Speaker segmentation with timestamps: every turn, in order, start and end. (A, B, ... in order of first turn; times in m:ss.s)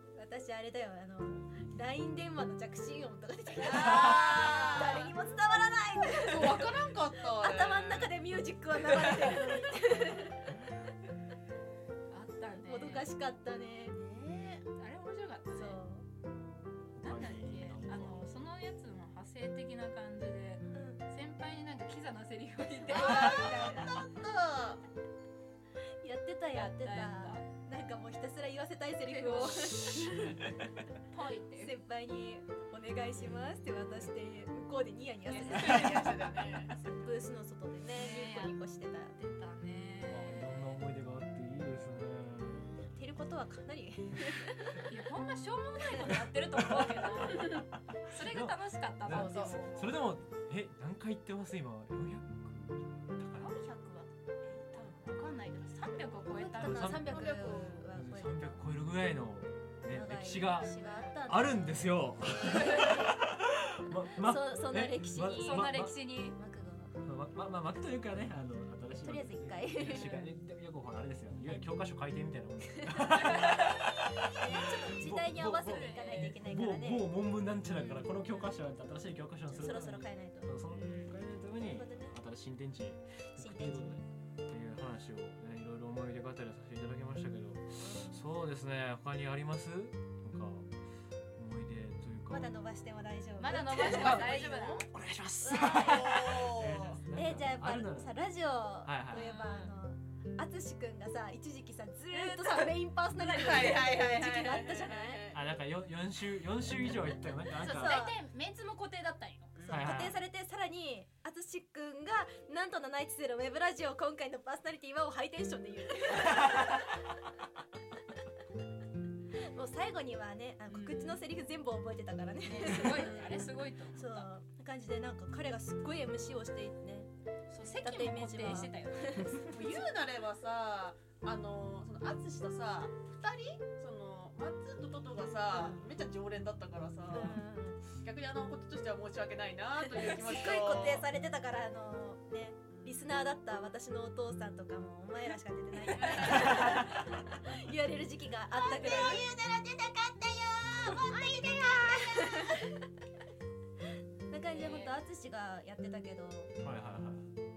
0:00.2-0:06.8 A
0:03.6-0:05.1 B
0:03.8-0:05.1 C
0:06.1-0:08.1 B
0:07.4-0:10.7 A
0:12.1-0:13.1 C
0:12.6-0:14.0 A
0:13.9-0:14.6 B
0:14.8-0:15.8 C
0:15.5-0:16.0 A
0:17.0-0:18.3 D
0:17.0-0:24.0 C
0:20.7-0:21.0 A
0:22.9-0:24.8 B
0:23.2-0:23.9 A
0:26.0-0:30.4 A
0:26.5-0:27.5 C
0:29.0-0:30.0 C
0:31.1-0:31.7 C
0:31.6-0:36.3 A
0:35.3-0:36.2 C
0:35.5-0:36.9 B
0:36.8-0:39.2 A
0:37.9-0:38.6 C
0:39.2-0:40.8 C
0:40.0-0:42.7 D
0:42.4-0:44.8 A
0:44.9-0:50.0 C
0:48.2-0:53.6 D
0:49.0-0:49.6 B
0:53.4-0:57.0 C
0:56.2-0:58.6 A
0:56.6-1:05.9 D
0:57.0-0:57.8 B
0:59.8-1:03.1 A
1:00.7-1:01.1 C
1:04.1-1:05.7 A
1:05.3-1:06.4 C
1:06.3-1:07.0 A
1:07.0-1:30.7 D
1:09.0-1:10.3 A
1:12.8-1:13.6 A
1:14.3-1:17.1 A
1:15.6-1:16.4 C
1:17.7-1:18.1 A
1:19.5-1:20.5 A
1:21.6-1:22.2 A
1:23.4-1:24.0 A
1:27.8-1:28.2 A
1:31.4-1:32.5 D
1:32.3-1:34.9 A
1:33.4-1:34.8 C
1:33.7-1:34.3 D
1:34.8-1:38.1 D
1:35.4-1:36.2 A
1:35.6-1:37.0 B
1:37.0-1:45.2 A
1:38.8-1:39.3 D
1:39.1-1:39.7 C
1:42.1-1:43.9 C
1:43.3-1:45.5 B
1:45.3-1:48.0 D
1:47.5-1:48.2 A
1:47.6-1:49.6 C
1:49.6-1:50.0 B
1:49.7-1:50.2 D
1:49.7-1:57.0 A
1:59.5-2:07.1 A
2:00.7-2:01.1 B
2:02.4-2:04.3 C
2:07.5-2:09.4 C
2:07.8-2:09.5 A
2:09.4-2:17.4 B
2:15.5-2:15.9 A
2:17.1-2:17.8 A
2:17.9-2:21.1 B
2:19.8-2:32.8 A
2:22.7-2:23.0 B
2:26.0-2:26.6 C
2:28.6-2:29.4 C
2:28.7-2:29.2 B
2:34.3-2:36.5 A
2:34.4-2:34.9 C
2:36.6-2:37.3 D